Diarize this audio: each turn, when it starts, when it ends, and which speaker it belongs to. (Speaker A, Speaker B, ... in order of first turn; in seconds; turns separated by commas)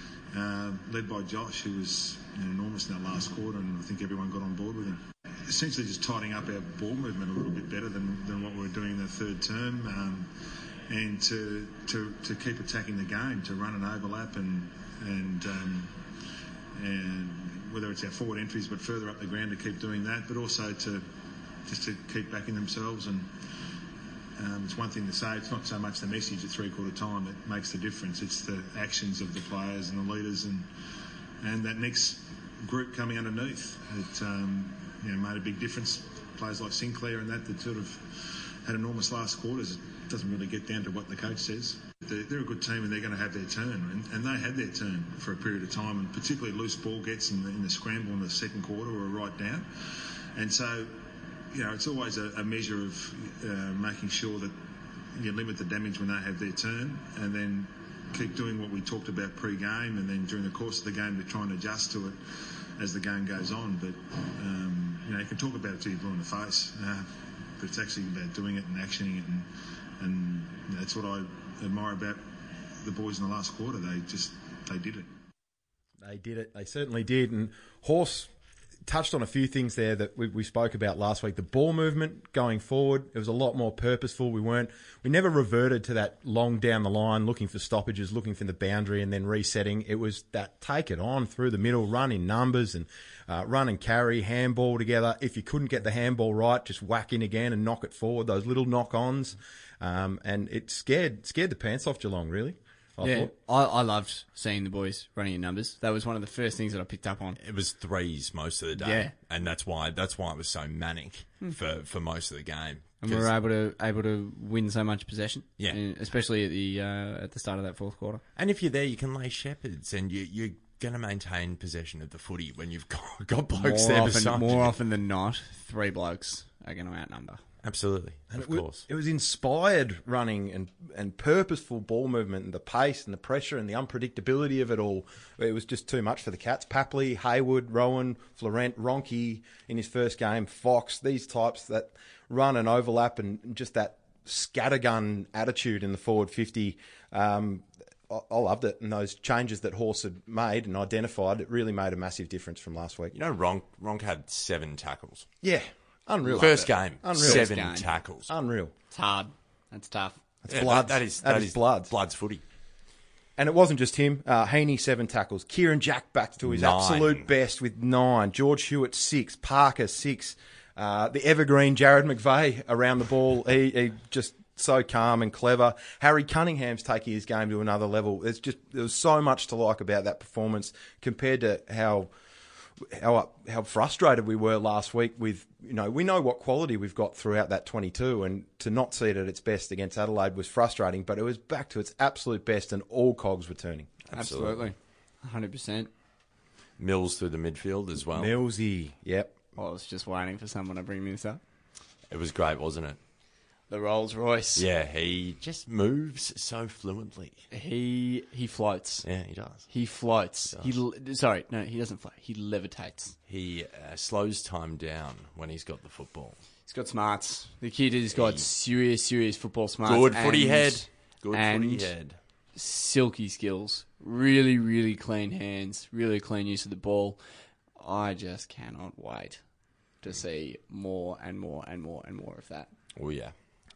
Speaker A: 0.3-10.3, Speaker A: 10.9-16.1, Speaker A: 16.8-21.1, Speaker A: 21.7-23.3, Speaker A: 24.4-30.7, Speaker A: 31.4-54.6, Speaker A: 55.1-62.2, Speaker A: 62.8-69.5, Speaker A: 70.0-72.2, Speaker A: 72.8-75.1, Speaker B: 76.0-78.3, Speaker B: 78.9-103.3, Speaker C: 103.0-107.4, Speaker D: 107.4-113.3, Speaker C: 108.8-109.1, Speaker C: 113.0-118.2, Speaker D: 118.4-124.8, Speaker C: 123.6-127.4, Speaker D: 127.6-128.8, Speaker B: 128.3-153.1, Speaker D: 153.1-155.3, Speaker B: 155.4-157.5, Speaker D: 156.4-158.3, Speaker C: 157.2-157.8, Speaker B: 158.3-158.7, Speaker C: 158.9-160.2, Speaker B: 160.4-161.9, Speaker D: 160.5-162.4, Speaker B: 163.4-182.1, Speaker D: 166.4-167.3, Speaker B: 182.8-194.0, Speaker D: 194.1-194.7, Speaker C: 194.1-195.9, Speaker D: 196.8-198.3, Speaker B: 198.2-199.4, Speaker C: 199.6-201.4, Speaker D: 202.1-203.0, Speaker C: 203.7-204.7, Speaker D: 204.6-207.4, Speaker C: 207.5-209.1, Speaker D: 209.0-209.7, Speaker C: 209.7-213.2, Speaker D: 213.3-216.4, Speaker C: 216.7-221.9, Speaker D: 218.1-218.5, Speaker D: 219.8-222.2, Speaker C: 222.6-227.2, Speaker C: 227.8-229.4, Speaker C: 230.0-232.7, Speaker D: 233.0-233.3